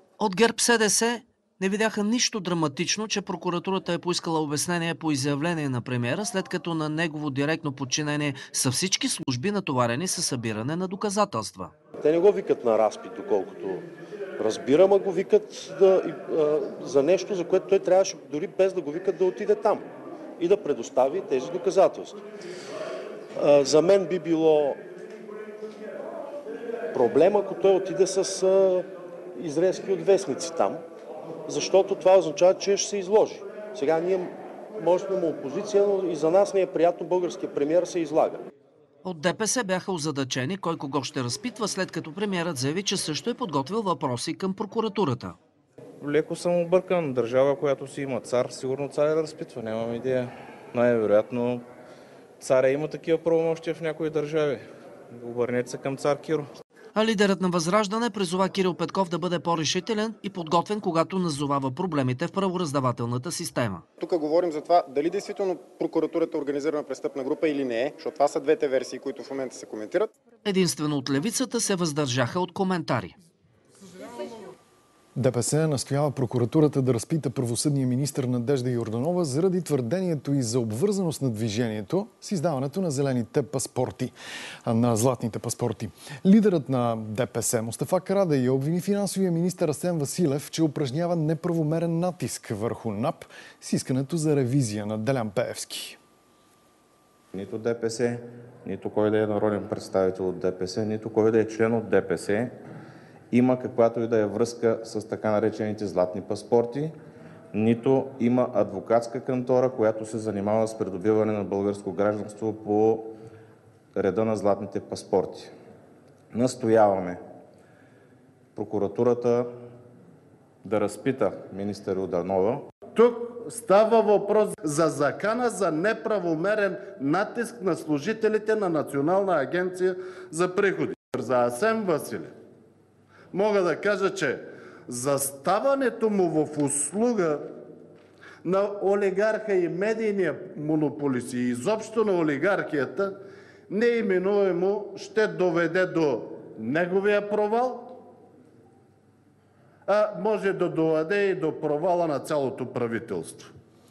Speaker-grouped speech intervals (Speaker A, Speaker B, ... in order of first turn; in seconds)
Speaker A: 0.2-11.7, 39.0-45.4, 56.9-63.8, 70.4-73.2
Speaker B: 12.0-13.9, 14.4-19.9, 20.4-22.2, 23.4-24.8, 26.9-30.8, 31.5-38.4
Speaker C: 46.0-51.6, 52.4-56.5
Speaker D: 64.0-70.1
Speaker E: 75.1-84.1, 84.6-96.0
Speaker F: 97.3-102.5, 103.3-107.0, 107.5-113.2, 113.9-115.5, 116.3-117.2, 118.5-119.6, 120.6-122.7
Speaker G: 122.9-132.3, 133.3-137.5, 138.4-148.0, 149.8-153.5